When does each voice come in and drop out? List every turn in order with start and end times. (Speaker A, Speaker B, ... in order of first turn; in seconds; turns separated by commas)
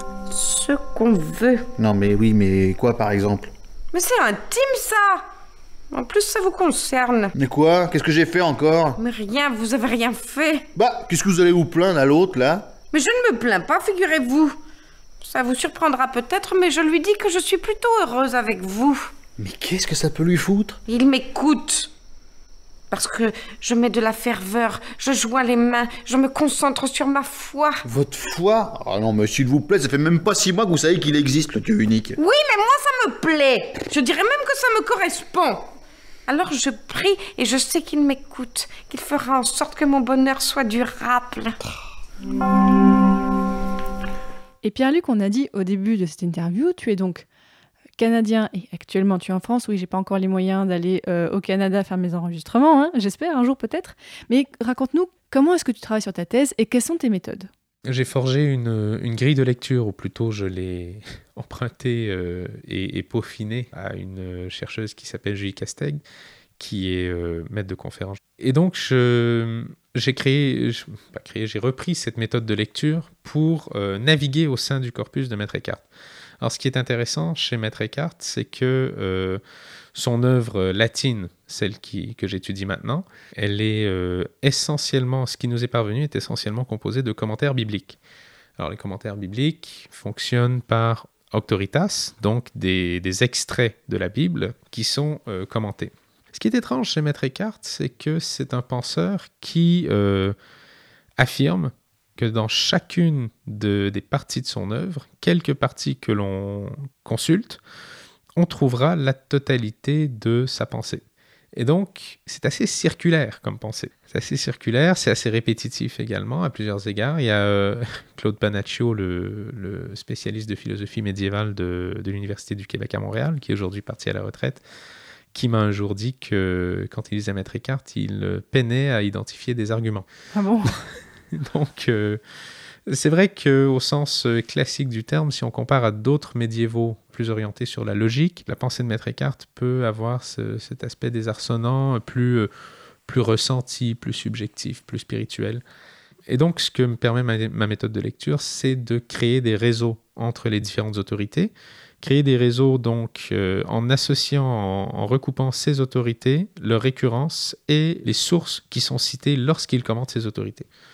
Speaker A: 0.3-1.6, Speaker B: 1.8-3.5, Speaker A: 3.9-5.2, Speaker A: 5.9-7.3, Speaker B: 7.4-9.0, Speaker A: 9.0-10.7, Speaker B: 10.8-12.7, Speaker A: 12.9-14.6, Speaker A: 15.2-19.1, Speaker B: 19.4-20.8, Speaker A: 20.9-21.9, Speaker A: 22.9-27.8, Speaker B: 27.9-32.2, Speaker A: 32.2-35.7, Speaker A: 36.3-41.6, Speaker C: 44.6-47.2, Speaker C: 48.0-57.5, Speaker D: 57.9-66.0, Speaker D: 66.6-75.9, Speaker D: 76.4-79.4, Speaker D: 79.9-88.0, Speaker D: 88.6-100.4, Speaker D: 101.2-107.6, Speaker D: 108.4-111.0, Speaker D: 111.5-124.6, Speaker D: 125.3-130.1, Speaker C: 130.3-130.8, Speaker D: 131.3-132.2, Speaker D: 132.9-142.5, Speaker D: 143.1-145.6, Speaker D: 146.3-160.7